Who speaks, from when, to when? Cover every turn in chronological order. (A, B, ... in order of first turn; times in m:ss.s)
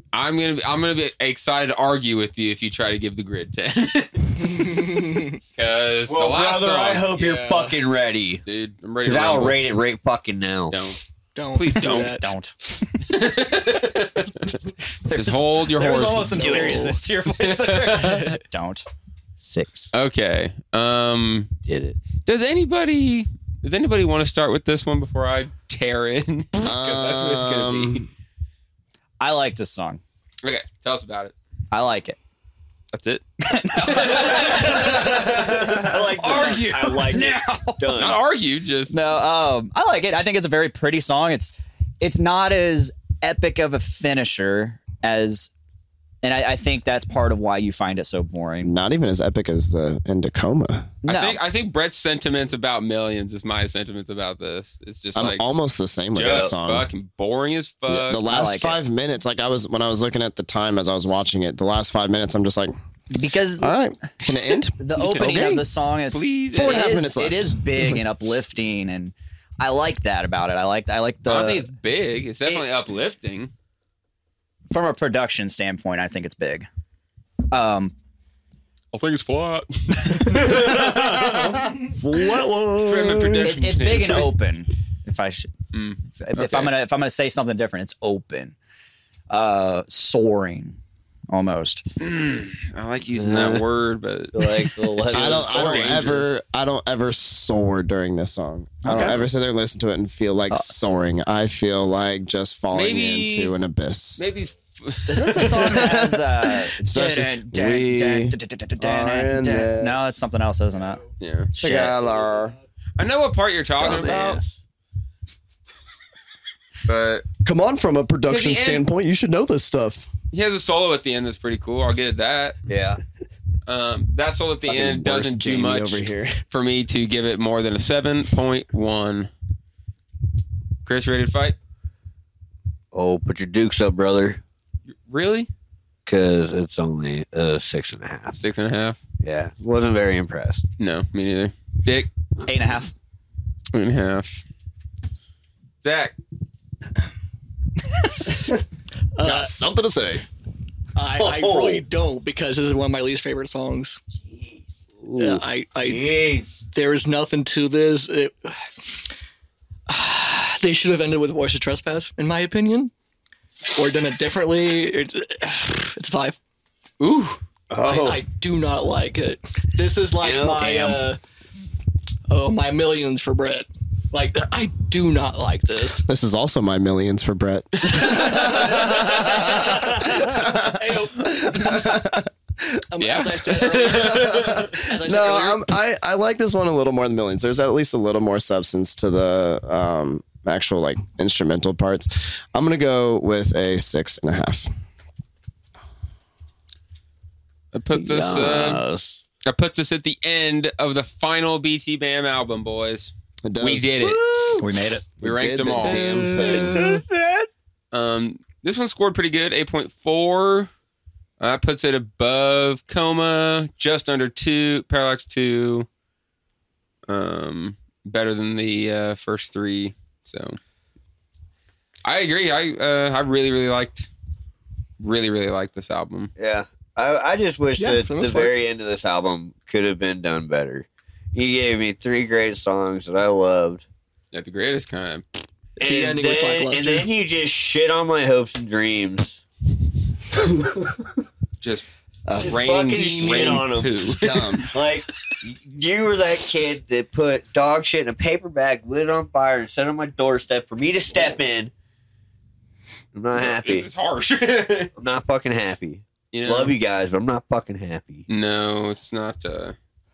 0:00.1-0:07.1 A
0:04.4-0:05.4 B
0:06.1-0:08.4 C
0:07.1-0:07.8 B
0:08.5-0:09.6 A
0:09.0-0:10.8 C
0:10.7-0:11.0 A
0:11.4-0:12.3 B
0:11.5-0:12.2 A
0:12.1-0:12.7 D
0:13.0-0:18.2 A
0:15.1-0:18.9 D
0:16.4-0:16.9 B
0:18.0-0:18.4 B
0:19.4-0:19.9 C
0:19.9-0:21.6 A
0:21.7-0:22.0 C
0:22.2-0:28.1 A
0:26.6-0:28.1 E
0:29.2-0:30.0 D
0:30.4-0:31.3 A
0:31.7-0:32.2 D
0:32.9-0:33.2 A
0:33.4-0:37.9 D
0:33.8-0:35.3 A
0:34.2-0:38.2 C
0:35.0-0:35.8 E
0:38.0-0:39.0 A
0:38.9-0:45.5 D
0:46.2-0:48.7 D
0:48.6-0:50.9 E
0:51.0-0:51.4 D
0:51.1-0:55.4 A
0:55.2-0:56.9 E
0:56.2-0:58.2 A
0:56.2-0:56.6 C
0:57.9-1:02.7 E
0:58.2-0:58.8 D
1:03.1-1:03.7 D
1:03.6-1:05.7 E
1:04.8-1:11.7 D
1:06.1-1:06.9 A
1:06.5-1:08.0 E
1:11.3-1:13.5 A
1:14.7-1:16.7 D
1:17.5-1:17.9 D
1:18.9-1:21.0 A
1:20.3-1:21.6 C
1:20.7-1:21.0 E
1:22.0-1:23.4 E
1:22.2-1:23.0 C
1:22.8-1:24.3 A
1:23.4-1:25.5 D
1:25.7-1:26.7 A
1:26.2-1:28.6 D
1:29.3-1:30.8 D
1:31.3-1:31.8 D
1:32.0-1:36.3 A
1:33.1-1:33.6 C
1:34.3-1:36.0 C
1:35.1-1:44.2 E
1:38.8-1:39.2 D
1:38.9-1:39.2 A
1:42.7-1:43.6 A
1:44.2-1:46.0 A
1:45.1-1:51.0 D
1:45.4-1:50.2 E
1:50.8-1:51.1 B
1:51.2-1:51.5 A
1:51.5-1:52.0 D
1:51.6-1:52.5 E
1:51.9-1:52.6 B
1:53.0-1:54.4 A
1:53.8-1:54.6 C
1:54.0-1:54.4 E
1:56.9-1:57.3 A
1:57.4-2:00.1 E
1:58.3-1:58.8 A
2:00.3-2:02.6 A
2:02.7-2:03.0 C
2:03.7-2:09.3 A
2:04.7-2:06.4 E
2:10.8-2:11.6 A
2:12.9-2:14.4 C
2:14.9-2:15.5 A
2:16.1-2:18.4 C
2:18.3-2:19.0 A
2:19.2-2:20.7 C
2:20.8-2:22.1 A
2:22.5-2:22.9 D
2:23.7-2:24.4 A
2:25.8-2:26.2 A
2:29.2-2:29.5 B
2:29.2-2:30.2 E
2:31.0-2:34.0 B
2:31.2-2:31.8 C
2:34.4-2:36.6 C
2:35.2-2:39.0 B
2:39.9-2:42.9 B
2:43.8-2:46.4 B
2:47.0-2:47.4 A
2:47.7-2:48.2 C
2:47.8-2:51.2 B
2:50.2-2:50.8 C
2:50.6-2:51.0 D
2:52.3-2:56.1 B
2:56.1-3:02.8 E
2:57.9-2:59.4 A
2:58.2-3:02.0 B
3:02.9-3:05.6 B
3:03.0-3:04.7 A
3:03.8-3:14.7 E
3:17.7-3:18.8 A
3:17.9-3:19.2 C
3:19.5-3:24.2 A
3:23.4-3:24.2 E
3:24.2-3:24.6 C
3:24.6-3:25.0 D
3:25.2-3:26.6 A
3:25.2-3:26.8 E
3:25.8-3:27.0 B
3:26.0-3:27.5 C
3:27.9-3:30.7 A
3:31.4-3:35.9 A
3:37.1-3:40.6 A
3:42.0-3:44.1 A
3:45.0-3:46.3 A
3:46.4-3:53.8 C
3:47.8-3:48.6 B
3:54.3-3:55.4 A
3:55.8-3:57.1 B
3:55.8-3:59.4 C
4:00.6-4:01.0 C
4:01.6-4:01.9 A
4:02.3-4:04.7 E
4:02.4-4:11.7 C
4:02.4-4:04.7 A
4:13.1-4:13.9 C
4:13.4-4:14.9 A
4:15.0-4:18.2 C
4:16.3-4:16.8 A
4:18.3-4:19.8 A